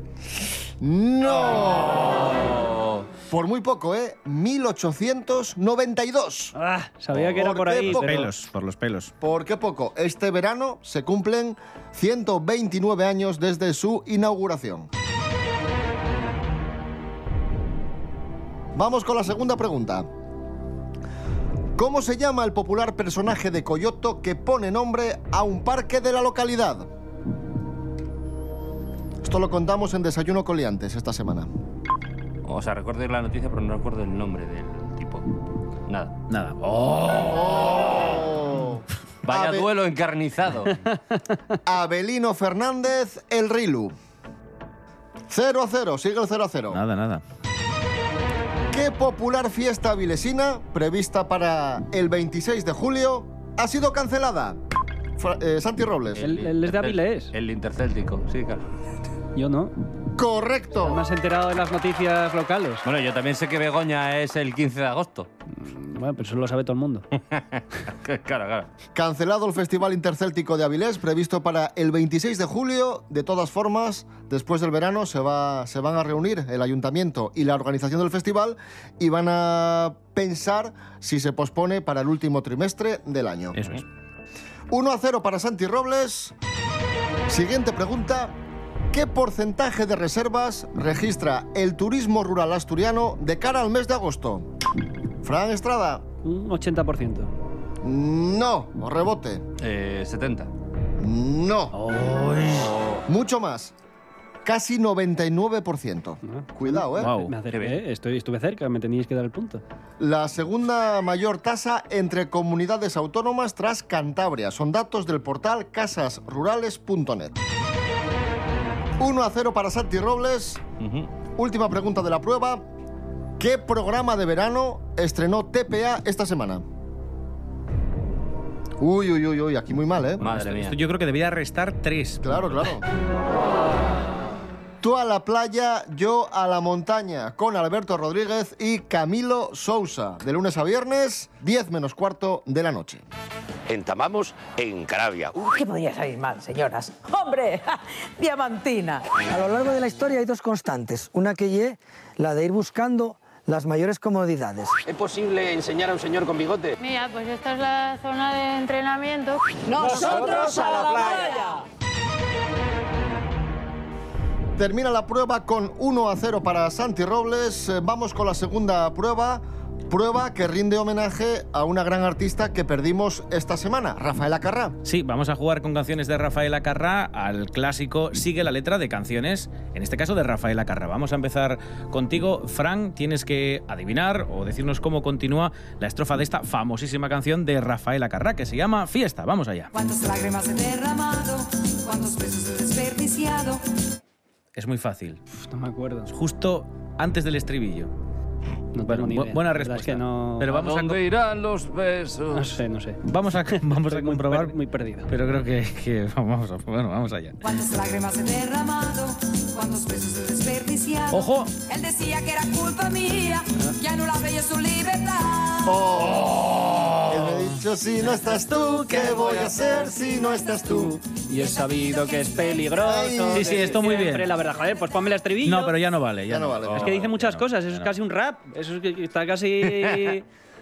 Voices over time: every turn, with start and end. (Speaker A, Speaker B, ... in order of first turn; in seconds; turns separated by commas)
Speaker A: 0.8-2.3, Speaker B: 2.0-3.1, Speaker A: 3.3-6.5, Speaker C: 6.5-8.3, Speaker A: 7.2-8.3, Speaker D: 7.9-9.1, Speaker A: 9.2-14.9, Speaker A: 18.8-20.1, Speaker A: 21.8-26.9, Speaker A: 29.2-31.5, Speaker B: 32.5-35.2, Speaker B: 35.9-36.1, Speaker D: 36.3-37.5, Speaker A: 37.3-39.7, Speaker B: 39.2-40.8, Speaker A: 41.7-44.0, Speaker A: 45.3-46.8, Speaker D: 46.7-47.2, Speaker A: 48.7-54.6, Speaker A: 55.2-56.2, Speaker B: 56.2-58.6, Speaker C: 56.2-57.3, Speaker C: 59.4-59.7, Speaker A: 60.2-61.0, Speaker C: 60.7-62.8, Speaker B: 62.8-65.3, Speaker C: 65.5-67.0, Speaker B: 67.3-68.7, Speaker A: 69.0-83.6, Speaker D: 83.5-83.8, Speaker A: 84.7-86.3, Speaker A: 87.3-88.3, Speaker A: 88.9-94.5, Speaker A: 95.2-96.0, Speaker C: 96.2-97.3, Speaker A: 97.8-99.4, Speaker B: 99.6-100.5, Speaker A: 101.0-101.8, Speaker D: 101.7-102.7, Speaker B: 102.6-103.0, Speaker A: 103.1-103.7, Speaker A: 104.5-107.1, Speaker C: 106.2-109.6, Speaker D: 107.0-107.3, Speaker B: 107.5-107.8, Speaker A: 110.0-117.4, Speaker A: 119.0-120.6, Speaker B: 120.8-121.1, Speaker A: 121.4-122.7, Speaker A: 123.4-126.6, Speaker A: 128.8-130.2, Speaker B: 130.2-130.8, Speaker D: 130.3-132.6, Speaker A: 132.2-132.8, Speaker A: 134.8-143.0, Speaker E: 145.4-149.1, Speaker F: 149.3-154.8, Speaker G: 154.9-156.6, Speaker H: 156.8-159.4, Speaker E: 159.7-161.4, Speaker G: 159.8-161.3, Speaker A: 164.6-174.8, Speaker D: 174.8-189.7, Speaker I: 189.7-193.6, Speaker D: 194.6-195.2, Speaker C: 195.4-196.1, Speaker D: 196.1-197.9, Speaker C: 198.7-200.5, Speaker D: 198.9-201.0, Speaker B: 200.5-202.6, Speaker C: 202.3-205.1, Speaker D: 203.1-204.6, Speaker D: 205.1-207.4, Speaker I: 207.4-215.8, Speaker D: 211.1-211.5, Speaker A: 215.7-216.4, Speaker A: 217.1-221.0, Speaker C: 220.8-225.8, Speaker A: 222.8-223.6, Speaker D: 223.3-224.3, Speaker D: 225.4-227.9, Speaker A: 226.3-226.9, Speaker C: 226.8-230.2, Speaker B: 229.7-230.1